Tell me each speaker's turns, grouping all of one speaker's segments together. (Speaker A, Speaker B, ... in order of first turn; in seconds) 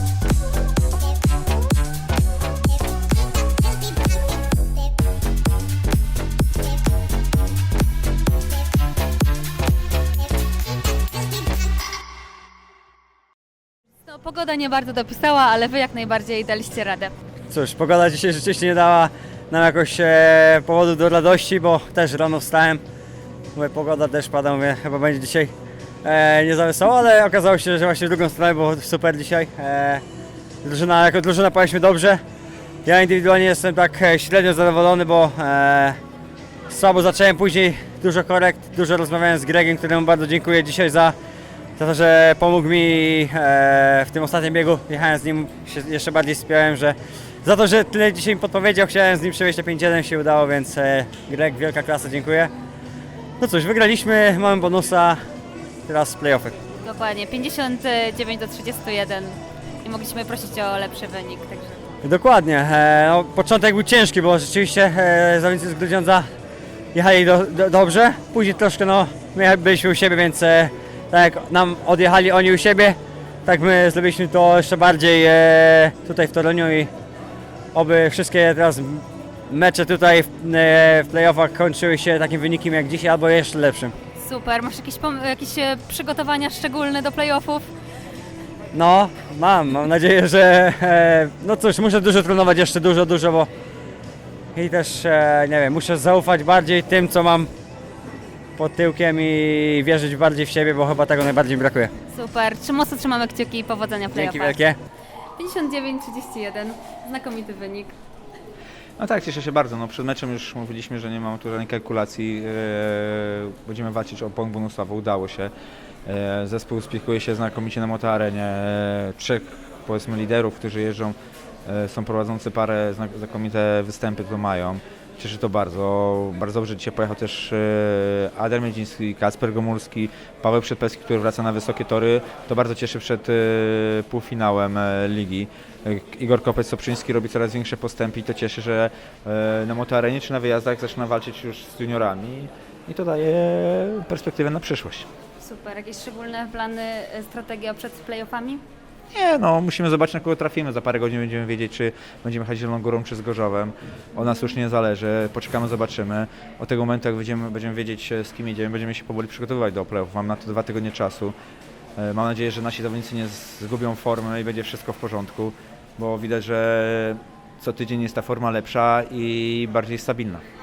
Speaker A: 14.1-17.1, 56.8-61.8, 84.2-87.7, 102.1-104.6, 105.4-108.0, 145.4-148.6
Speaker B: 17.5-22.8, 23.6-25.5, 26.0-30.0, 30.6-32.2, 32.9-36.0, 36.7-41.1, 41.8-52.5, 53.4-55.2, 55.9-56.6, 62.0-66.3, 66.9-76.9, 77.8-84.0, 88.7-93.5, 94.5-97.5, 98.6-101.9, 104.1-104.8
Speaker C: 109.0-115.5, 116.1-145.1, 149.1-161.4, 162.0-170.4